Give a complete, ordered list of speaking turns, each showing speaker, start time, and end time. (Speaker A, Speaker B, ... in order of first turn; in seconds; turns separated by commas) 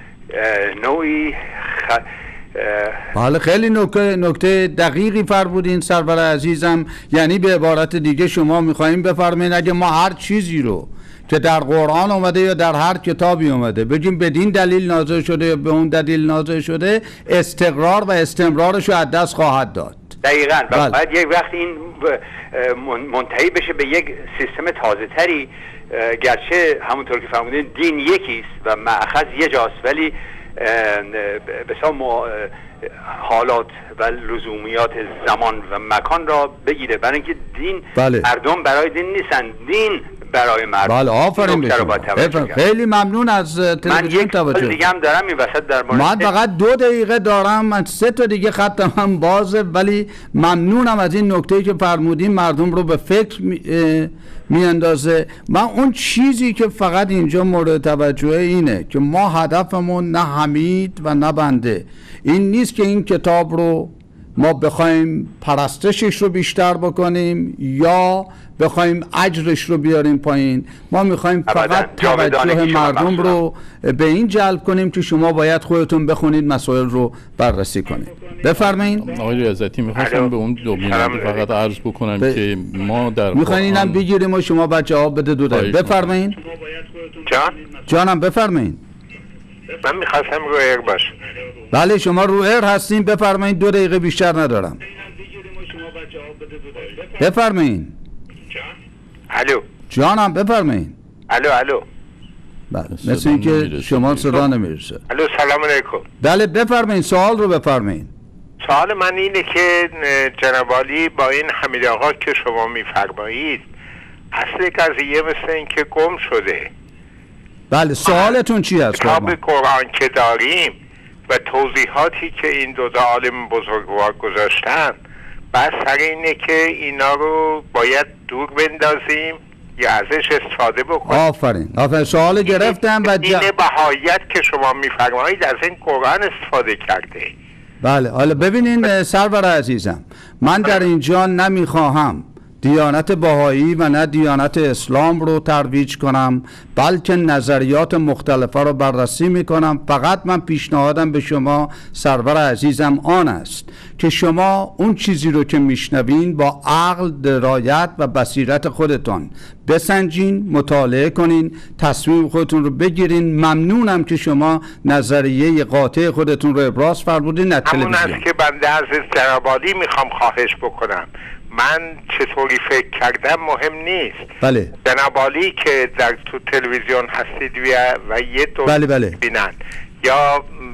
Speaker A: 0.3-3.0, Speaker B: 3.1-20.1, Speaker A: 20.2-42.6, Speaker B: 37.9-38.3, Speaker B: 40.8-44.8, Speaker A: 43.8-46.3, Speaker B: 45.9-79.0, Speaker A: 71.5-73.4, Speaker C: 79.0-84.0, Speaker D: 80.0-80.3, Speaker D: 80.8-81.4, Speaker B: 83.3-86.4, Speaker C: 85.5-86.1, Speaker D: 87.2-87.6, Speaker B: 87.8-88.8, Speaker D: 89.7-91.2, Speaker B: 91.7-94.8, Speaker A: 95.4-95.6, Speaker A: 96.3-96.7, Speaker B: 97.1-97.9, Speaker D: 99.3-99.6, Speaker B: 99.9-100.9, Speaker D: 101.3-101.8, Speaker B: 102.7-105.0, Speaker C: 102.9-104.5, Speaker D: 105.1-106.0, Speaker B: 106.2-108.1, Speaker D: 108.6-113.6, Speaker D: 114.3-116.7, Speaker B: 117.7-119.4, Speaker D: 118.0-118.3, Speaker D: 118.9-120.8, Speaker D: 121.3-125.0, Speaker D: 125.5-131.2, Speaker B: 131.1-133.5, Speaker D: 132.5-137.3, Speaker B: 137.8-168.2, Speaker D: 167.7-174.3, Speaker B: 174.4-174.7, Speaker D: 174.8-180.5, Speaker B: 178.7-179.2